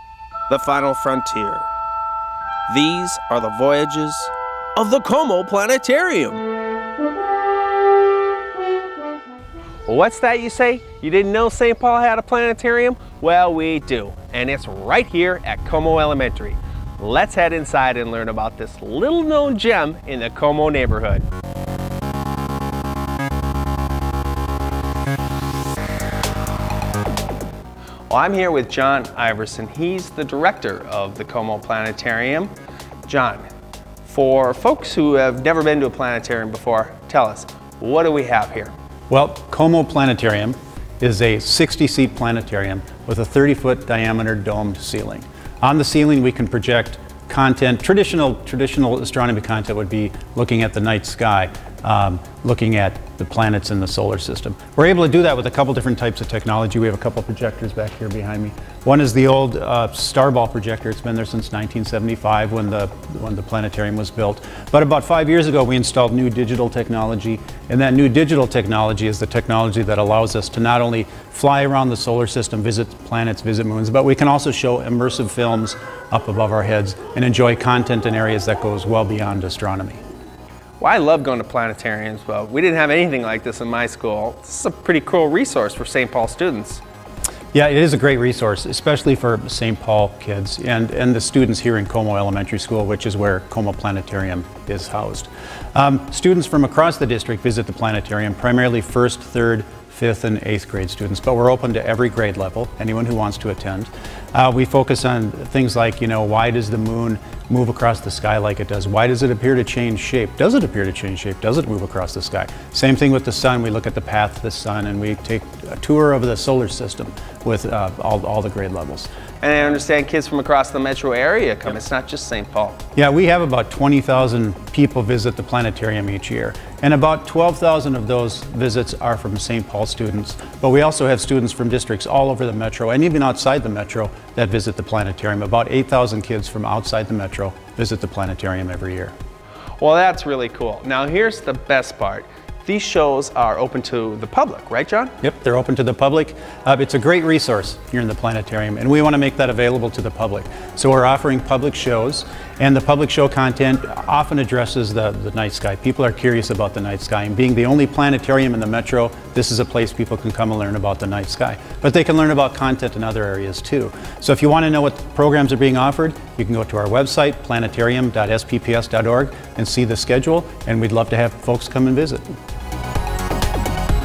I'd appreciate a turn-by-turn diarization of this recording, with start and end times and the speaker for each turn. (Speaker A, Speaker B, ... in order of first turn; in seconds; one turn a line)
Speaker A: 0.5-1.7
Speaker A: 2.7-6.5
Speaker A: 9.9-21.3
Speaker A: 28.1-32.5
Speaker A: 33.1-33.5
Speaker A: 34.0-38.7
Speaker B: 39.1-80.0
Speaker A: 80.8-86.8
Speaker B: 87.5-119.1
Speaker A: 119.4-122.8
Speaker B: 123.0-139.1
Speaker A: 139.8-145.1
Speaker B: 145.2-172.3